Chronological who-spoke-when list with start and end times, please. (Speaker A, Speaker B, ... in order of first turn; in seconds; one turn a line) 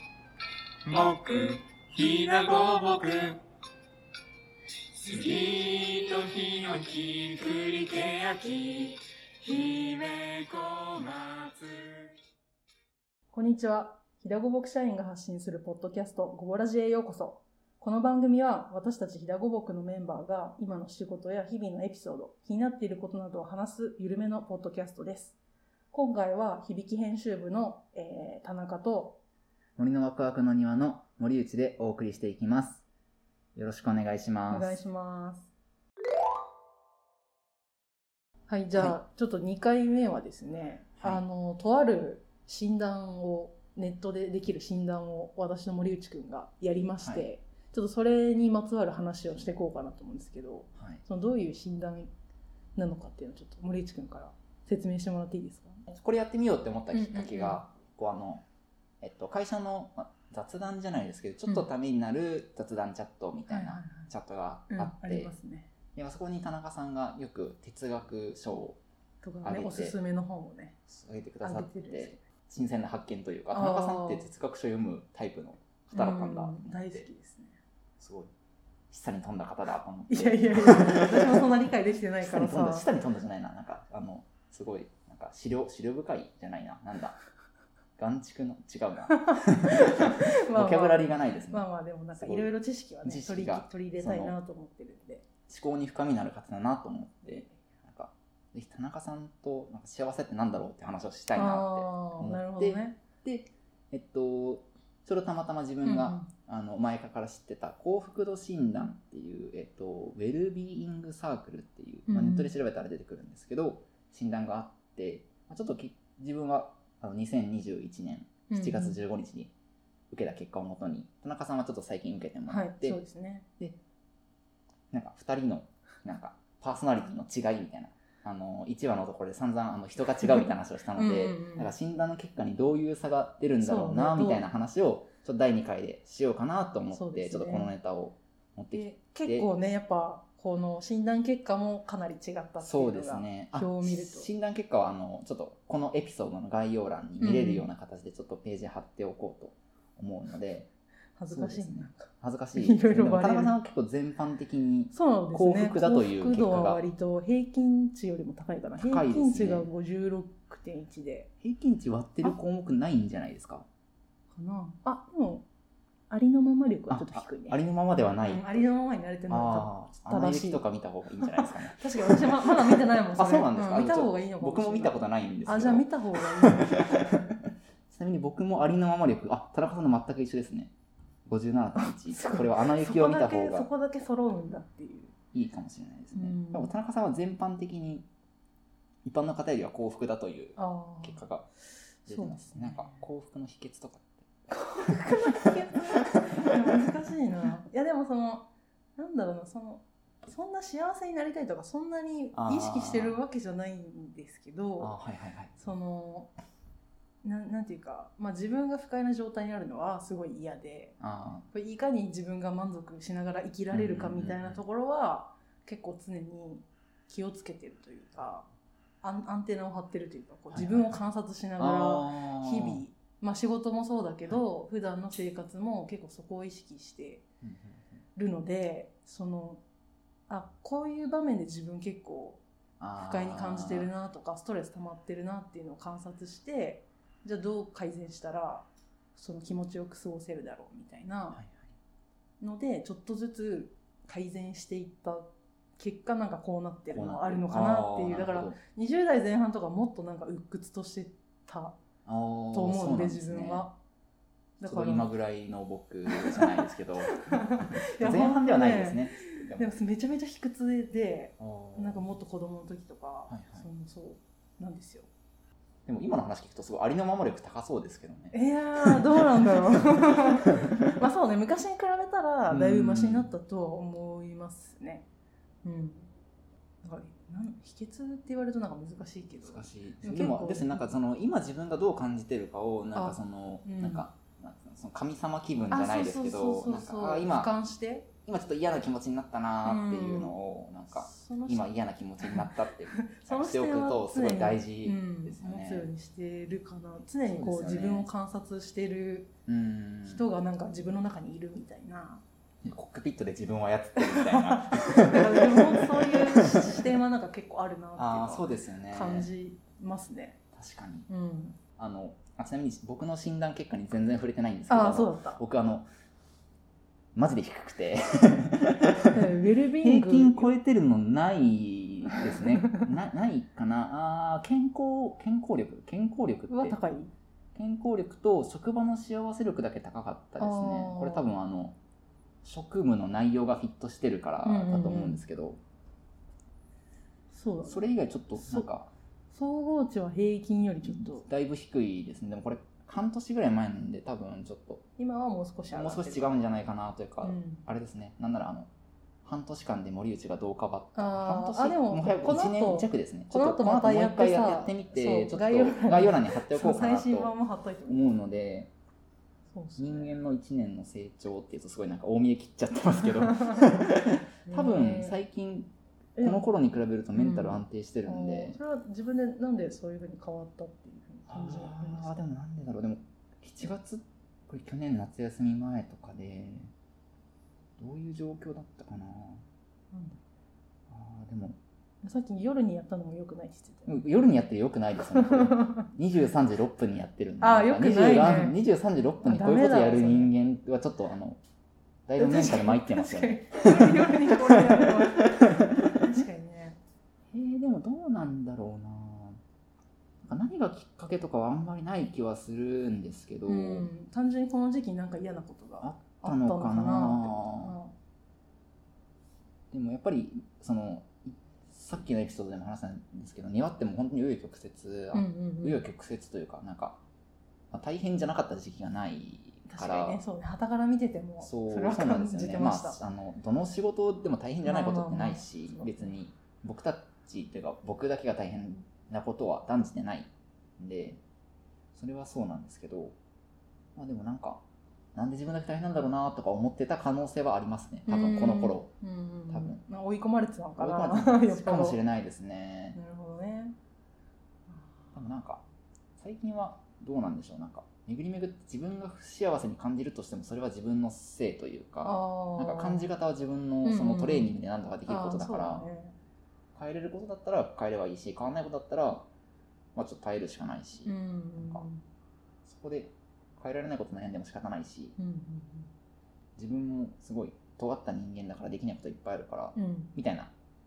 Speaker A: 0.8-3.4
Speaker A: 4.9-12.1
Speaker B: 13.3-25.4
Speaker B: 25.9-29.2
Speaker C: 29.8-32.8
Speaker C: 33.5-34.8
Speaker B: 34.5-35.5
Speaker B: 38.5-52.1
Speaker C: 47.0-47.3
Speaker C: 50.8-51.0
Speaker B: 52.8-55.9
Speaker C: 55.9-58.4
Speaker B: 56.9-57.6
Speaker C: 59.0-65.3
Speaker B: 63.5-64.1
Speaker B: 64.7-65.7
Speaker C: 65.9-68.8
Speaker B: 69.2-70.8
Speaker C: 69.4-70.0
Speaker C: 70.9-77.0
Speaker B: 71.4-72.2
Speaker B: 73.5-74.3
Speaker B: 75.9-77.6
Speaker C: 78.0-78.3
Speaker C: 78.9-81.4
Speaker B: 80.1-82.9
Speaker C: 82.2-87.2
Speaker C: 88.0-92.5
Speaker B: 89.1-95.2
Speaker C: 93.0-94.4
Speaker C: 95.5-119.5
Speaker B: 101.3-103.0
Speaker B: 105.8-106.3
Speaker B: 112.1-112.5
Speaker B: 118.5-119.0
Speaker C: 120.1-123.0
Speaker B: 122.5-123.5
Speaker C: 124.9-139.5
Speaker B: 130.9-131.7
Speaker B: 133.6-134.4
Speaker B: 136.9-137.7
Speaker B: 138.7-144.3
Speaker C: 142.6-150.7
Speaker B: 147.2-147.7
Speaker B: 151.2-153.5
Speaker C: 151.3-156.8
Speaker B: 154.9-161.3
Speaker C: 158.8-159.7
Speaker C: 161.4-163.7
Speaker B: 164.3-165.4
Speaker B: 166.1-167.6
Speaker C: 166.9-168.7
Speaker B: 168.2-170.6
Speaker C: 169.3-180.7
Speaker B: 171.2-177.2
Speaker C: 181.2-183.7
Speaker B: 181.8-185.1
Speaker C: 185.3-188.1
Speaker B: 186.1-186.7
Speaker C: 189.0-191.5
Speaker B: 190.6-191.2
Speaker B: 192.1-193.0
Speaker C: 192.1-194.2
Speaker B: 194.5-204.9
Speaker C: 194.9-196.6
Speaker C: 202.3-203.2
Speaker C: 204.8-205.5
Speaker B: 205.6-206.3
Speaker B: 207.2-211.0
Speaker C: 211.0-211.5
Speaker B: 211.5-218.5
Speaker C: 213.7-214.6
Speaker B: 219.0-227.2
Speaker C: 220.5-221.0
Speaker C: 221.6-222.8
Speaker C: 227.4-227.8
Speaker B: 228.2-229.6
Speaker B: 230.3-232.4
Speaker C: 232.8-233.9
Speaker B: 232.9-241.4
Speaker C: 241.3-241.7
Speaker B: 242.4-251.8
Speaker C: 246.9-248.6
Speaker C: 252.1-253.7
Speaker B: 252.5-253.8
Speaker B: 254.6-255.1
Speaker C: 254.7-259.7
Speaker B: 256.1-265.1
Speaker C: 261.4-262.1
Speaker C: 263.3-263.7
Speaker C: 265.9-271.0
Speaker B: 268.3-275.1
Speaker C: 272.5-273.3
Speaker B: 275.6-276.1
Speaker B: 276.8-280.9
Speaker C: 279.4-287.5
Speaker B: 282.9-284.1
Speaker B: 285.7-288.1
Speaker C: 288.2-295.9
Speaker B: 289.6-290.4
Speaker B: 290.9-291.7
Speaker B: 292.2-299.3
Speaker C: 297.3-298.1
Speaker C: 299.5-300.3
Speaker B: 300.0-302.2
Speaker C: 302.6-306.7
Speaker B: 304.0-310.4
Speaker C: 308.0-309.3
Speaker C: 310.5-311.1
Speaker B: 311.1-311.6
Speaker C: 311.8-315.9
Speaker B: 314.7-315.4
Speaker C: 317.1-319.2
Speaker B: 319.1-320.5
Speaker C: 319.8-326.8
Speaker B: 326.5-327.1
Speaker C: 327.5-331.8
Speaker B: 330.4-331.3
Speaker C: 332.4-335.6
Speaker B: 334.4-335.2
Speaker B: 337.3-338.7
Speaker C: 337.6-338.9
Speaker B: 339.3-341.3
Speaker C: 340.8-344.8
Speaker B: 345.0-346.3
Speaker C: 345.7-348.7
Speaker B: 347.2-347.6
Speaker C: 349.2-357.3
Speaker B: 350.9-358.1
Speaker C: 357.9-358.7
Speaker B: 359.5-360.1
Speaker C: 359.8-368.6
Speaker B: 363.3-363.7
Speaker B: 364.4-365.2
Speaker B: 366.1-366.4
Speaker B: 367.1-372.2
Speaker C: 371.3-376.7
Speaker C: 377.8-379.4
Speaker B: 379.9-380.2
Speaker C: 380.9-381.6
Speaker B: 382.0-384.1
Speaker C: 383.9-391.4
Speaker B: 385.1-385.9
Speaker B: 387.4-388.6
Speaker B: 389.2-390.3
Speaker C: 392.1-396.2
Speaker B: 392.2-396.8
Speaker C: 397.3-399.4
Speaker C: 400.2-403.9
Speaker B: 403.4-407.9
Speaker C: 405.8-407.7
Speaker C: 409.7-417.0
Speaker B: 415.1-415.8
Speaker C: 417.7-420.2
Speaker B: 419.7-423.0
Speaker C: 421.4-431.2
Speaker B: 424.6-426.1
Speaker C: 431.9-433.1
Speaker C: 433.9-434.6
Speaker C: 435.1-438.9
Speaker B: 438.1-442.0
Speaker C: 439.5-439.8
Speaker C: 440.8-443.0
Speaker B: 442.9-443.8
Speaker B: 444.7-445.1
Speaker C: 445.1-445.6
Speaker C: 446.2-455.9
Speaker B: 452.0-453.1
Speaker B: 453.8-456.1
Speaker C: 456.7-459.3
Speaker C: 459.9-461.9
Speaker B: 461.0-462.0
Speaker C: 462.6-465.1
Speaker B: 465.2-465.9
Speaker C: 466.6-470.5
Speaker B: 469.7-470.1